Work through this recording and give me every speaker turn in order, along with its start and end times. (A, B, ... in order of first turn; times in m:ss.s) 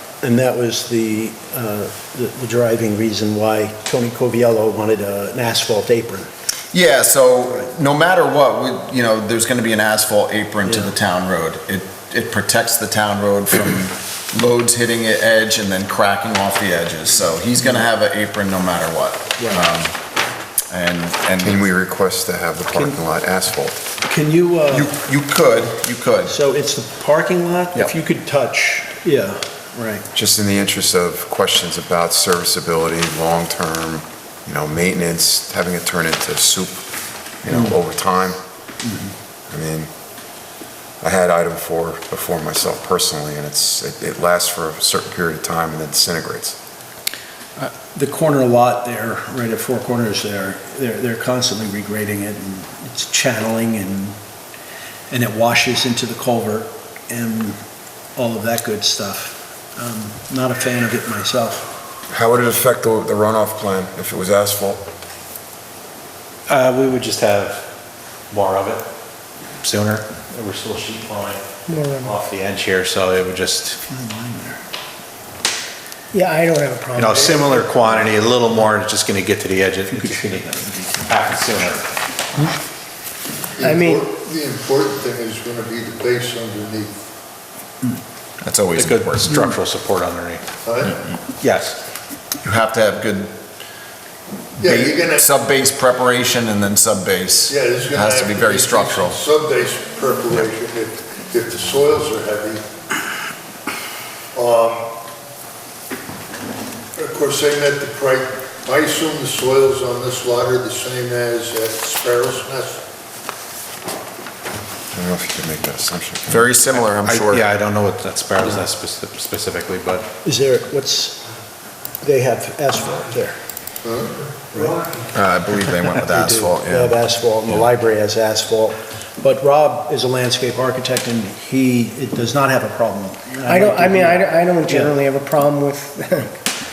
0:00.2-0:06.3 A
0:06.7-0:19.9 B
0:10.6-0:10.9 A
0:17.6-0:17.8 A
0:19.4-0:19.7 A
0:20.7-0:21.7 B
0:21.4-0:23.8 C
0:24.0-0:25.0 A
0:24.7-0:26.4 B
0:26.2-0:30.0 A
0:30.1-0:36.8 C
0:37.4-0:38.4 C
0:37.5-0:37.8 A
0:38.8-0:39.1 A
0:39.5-0:39.9 C
0:41.0-0:46.6 C
0:47.6-0:54.2 A
0:55.1-0:57.6 A
0:58.1-1:01.7 A
1:02.1-1:04.8 C
1:06.5-1:07.7 D
1:08.3-1:08.8 D
1:09.6-1:11.4 D
1:11.7-1:12.2 E
1:12.0-1:13.8 D
1:13.9-1:14.6 A
1:16.1-1:17.7 E
1:17.0-1:20.4 D
1:17.8-1:18.5 A
1:19.9-1:21.2 A
1:21.1-1:21.8 D
1:23.6-1:27.0 F
1:23.6-1:24.0 E
1:28.4-1:29.4 B
1:28.8-1:30.4 D
1:29.2-1:29.6 A
1:30.6-1:31.0 F
1:31.4-1:31.8 D
1:32.4-1:33.3 B
1:34.6-1:35.3 F
1:34.6-1:39.2 B
1:37.5-1:42.6 F
1:44.3-1:44.9 F
1:47.0-1:52.8 F
1:54.9-1:56.5 C
1:56.3-1:57.4 B
1:57.0-2:00.1 D
2:00.2-2:01.2 A
2:02.0-2:03.4 A
2:03.8-2:04.2 F
2:04.5-2:04.8 A
2:05.1-2:07.0 B
2:05.6-2:15.0 A
2:13.4-2:16.4 E